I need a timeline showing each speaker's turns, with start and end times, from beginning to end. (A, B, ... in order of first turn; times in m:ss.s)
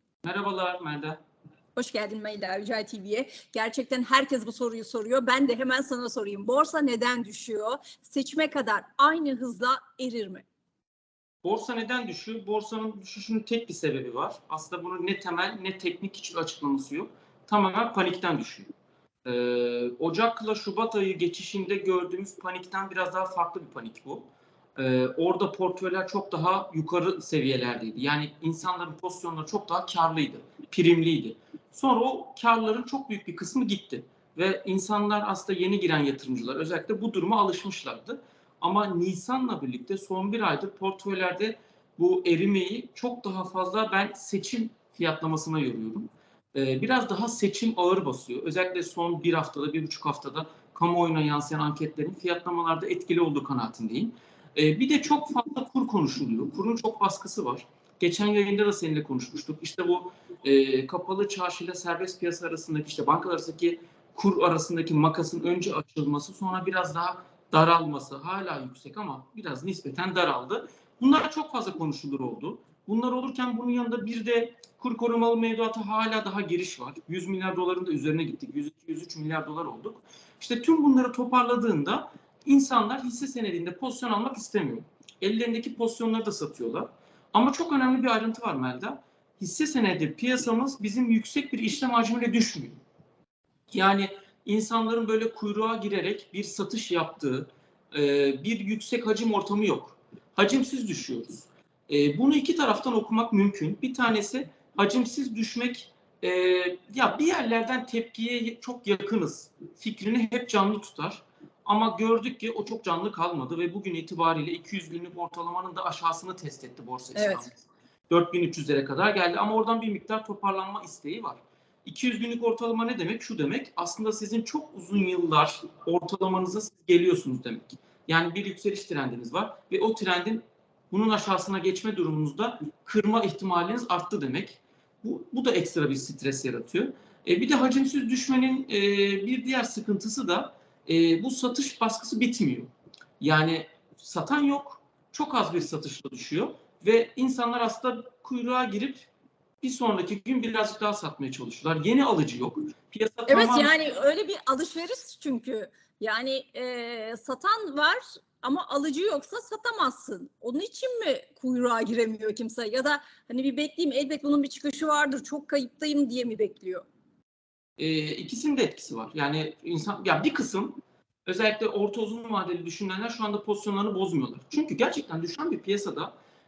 0:00.2-0:01.2 A
0:01.8-0:10.4 B
0:11.4-0:18.7 A
0:19.2-1:32.8 A
1:33.7-2:29.1 A
1:57.1-1:57.4 B
2:29.6-2:33.7 A
2:33.3-2:46.8 B
2:47.8-2:56.1 A